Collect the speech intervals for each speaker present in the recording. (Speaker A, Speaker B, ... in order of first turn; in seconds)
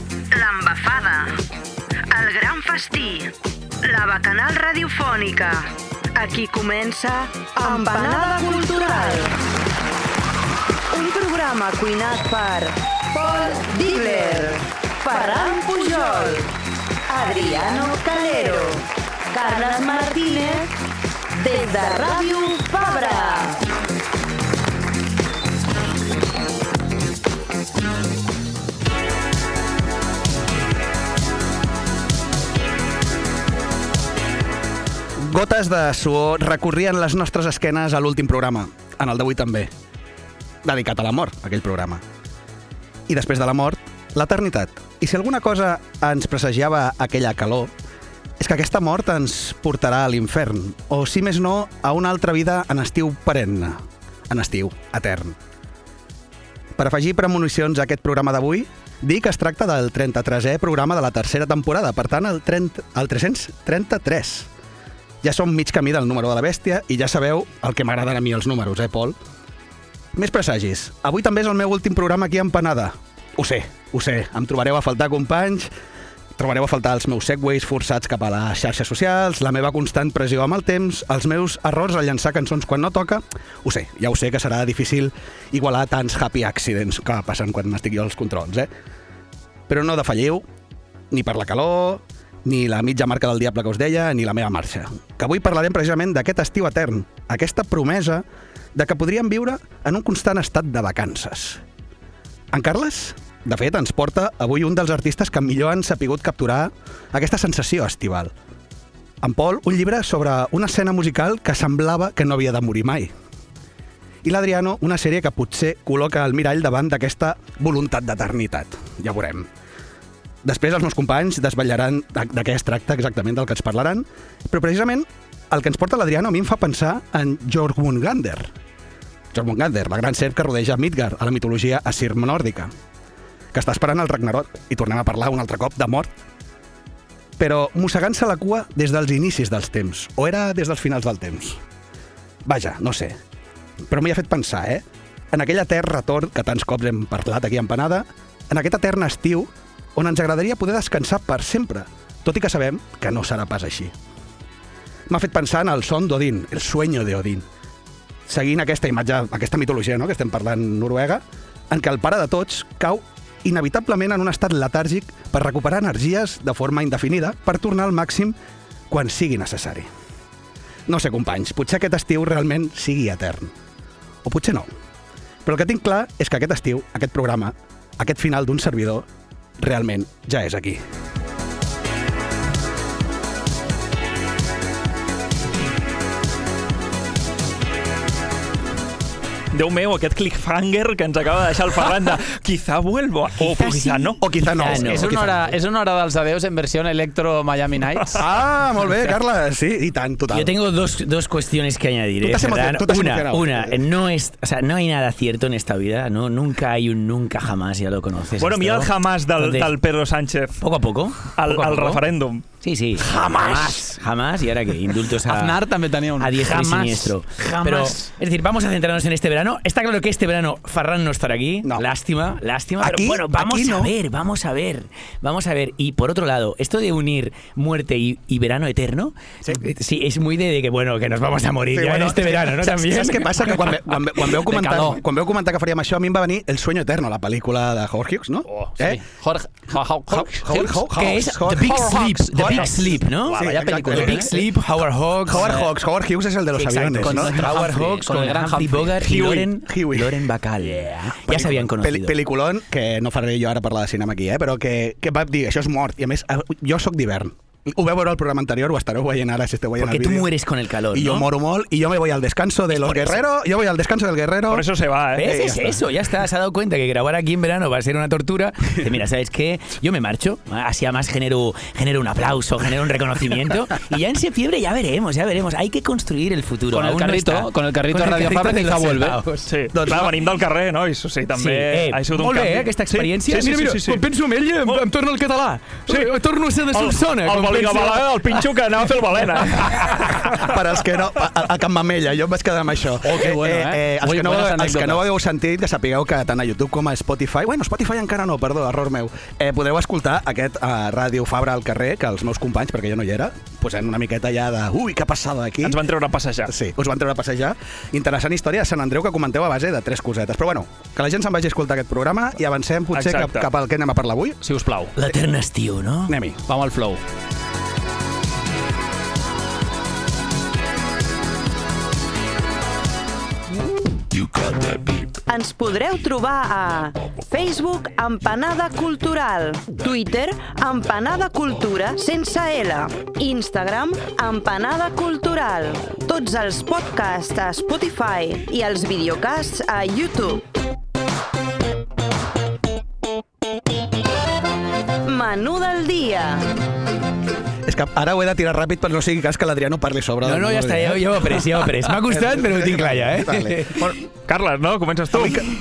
Speaker A: 0.3-1.4, 2.1-9.4, 10.9-16.5, 17.1-20.7, 21.3-23.6, 325.3-340.4, 345.1-346.5
Speaker B: 35.2-39.7, 40.6-42.0, 43.1-47.7, 48.4-55.4, 56.8-64.5, 65.2-69.2, 70.2-75.7, 76.4-88.7, 89.7-90.4, 91.1-101.6, 102.5-108.3, 109.2-113.1, 114.2-119.5, 120.4-128.5, 129.3-132.7, 133.5-136.1, 137.4-141.6, 142.5-143.2, 143.9-153.9, 155.1-157.4, 158.3-168.4, 168.9-169.9, 170.9-173.5, 174.2-174.7, 175.4-179.1, 179.6-180.8, 194.2-195.2, 198.2-200.5, 202.2-203.8, 216.2-216.6, 222.8-223.9, 231.7-239.0, 240.1-244.3, 245.3-247.5, 249.2-260.3, 260.9-264.7, 265.2-265.8, 279.7-280.1, 290.4-305.8, 306.5-314.4, 316.1-316.4, 347.6-353.9, 355.1-355.5
Speaker C: 189.5-194.2, 208.4-210.6, 211.3-212.4, 249.0-249.5, 264.5-265.5, 279.5-284.0, 285.9-286.2, 286.7-290.5, 305.6-306.5, 312.9-313.5, 354.3-355.4
Speaker D: 193.4-195.4, 200.3-209.7, 210.6-212.0, 212.6-233.8, 240.9-245.6, 246.9-252.2, 259.8-261.2, 262.7-263.2, 265.2-279.5, 281.4-288.5, 289.4-290.1, 315.0-316.2, 350.2-354.0
Speaker E: 194.8-198.2, 213.2-213.6, 215.3-217.1, 217.6-218.0, 234.5-235.0, 238.5-244.4, 245.3-245.7, 246.6-249.0, 276.7-279.2, 293.0-295.1, 314.4-314.9, 316.5-317.0